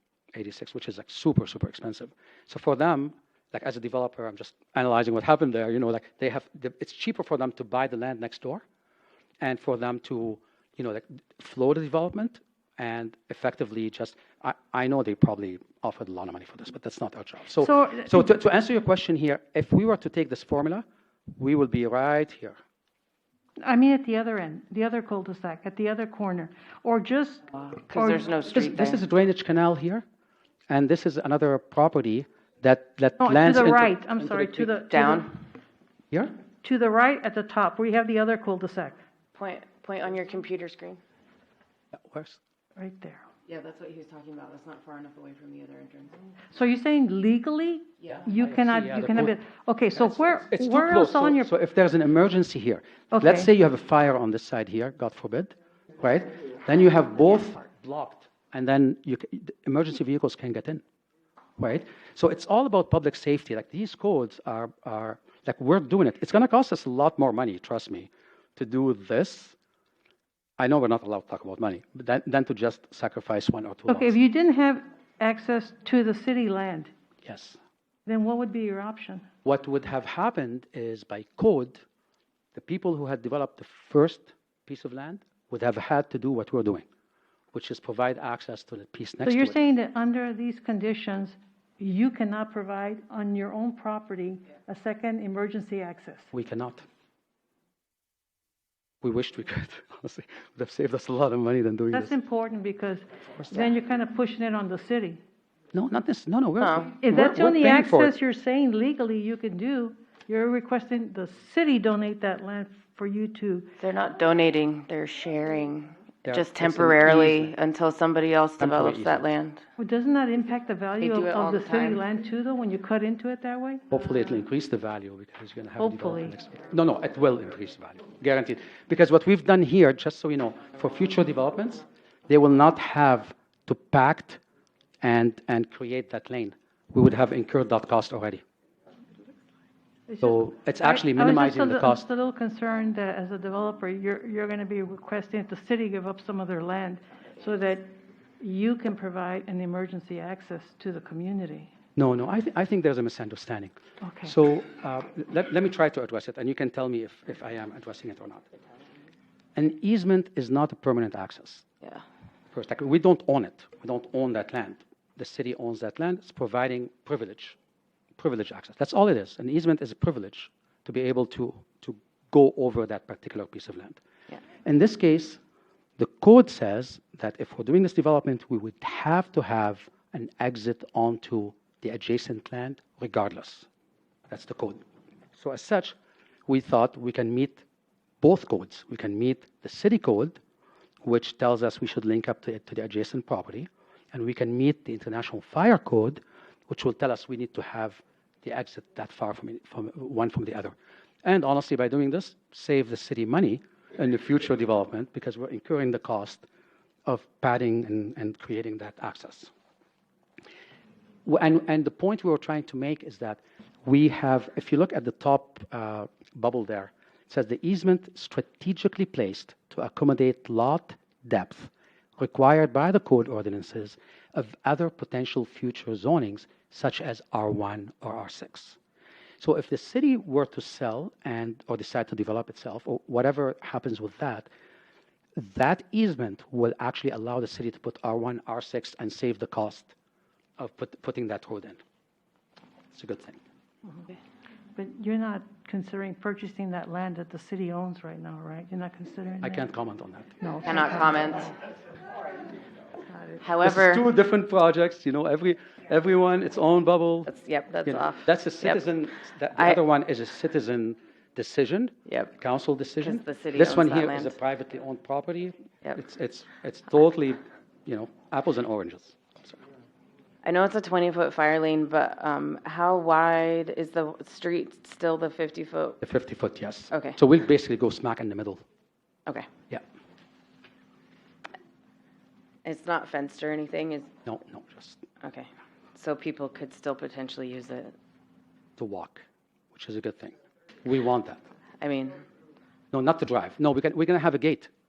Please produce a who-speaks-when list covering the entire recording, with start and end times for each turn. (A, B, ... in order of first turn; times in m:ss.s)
0:00.3-0:08.6 A
0:09.4-0:20.8 A
0:17.6-0:18.2 B
0:21.4-0:22.6 A
0:23.6-0:28.3 B
0:27.6-0:29.0 C
0:28.5-0:30.0 A
0:30.7-0:34.8 A
0:33.2-0:35.3 B
0:34.9-0:35.3 C
0:36.6-0:39.0 B
0:39.3-0:41.0 C
0:41.9-0:42.4 A
0:42.8-0:43.3 B
0:43.5-0:46.2 C
0:46.5-0:51.5 B
0:48.4-0:49.3 A
0:50.0-1:00.8 A
0:53.1-0:53.5 B
1:01.6-1:09.6 A
1:10.6-1:14.1 A
1:13.9-1:16.9 B
1:17.2-1:17.6 A
1:18.1-1:19.3 B
1:19.4-1:21.8 A
1:22.5-1:26.9 A
1:27.5-1:29.6 A
1:29.2-1:36.3 B
1:36.3-1:36.8 A
1:39.0-1:42.1 A
1:41.9-1:45.2 B
1:45.7-1:48.1 A
1:46.6-1:46.9 C
1:47.0-1:53.7 B
1:53.8-1:59.6 C
1:56.2-1:57.6 A
1:58.6-1:59.3 A
1:59.8-2:03.8 B
2:01.0-2:02.0 C
2:03.9-2:14.4 A
2:05.8-2:06.3 B
2:15.0-2:18.4 A
2:20.1-2:31.7 B
2:20.2-2:22.1 A
2:32.0-2:38.5 A
2:34.0-2:34.3 B
2:39.6-2:41.6 A
2:42.5-2:47.6 A
2:48.2-2:54.0 A
2:54.6-2:55.4 A
2:56.0-3:03.7 A
3:04.3-3:04.8 A
3:05.3-3:06.0 A
3:06.5-3:07.6 A
3:08.2-3:10.4 A
3:11.0-3:26.4 A
3:27.1-3:29.5 A
3:31.2-3:48.8 A
3:49.4-3:54.5 A
3:55.4-3:59.9 A
4:00.6-4:01.8 A
4:02.9-4:03.4 A
4:04.8-4:09.7 B
4:09.4-4:10.3 A
4:10.4-4:11.2 B
4:10.6-4:11.6 C
4:13.4-4:14.0 C
4:13.6-4:17.3 A
4:17.2-4:18.8 C
4:17.9-4:29.6 A
4:19.6-4:19.8 C
4:22.1-4:22.3 C
4:23.0-4:24.4 C
4:30.4-4:36.0 C
4:36.0-4:38.6 A
4:36.9-4:37.2 C
4:42.6-4:44.1 C
4:44.2-4:45.0 A
4:45.2-4:47.9 C
4:48.8-4:51.4 A
4:51.8-4:52.2 C
4:52.9-4:54.7 A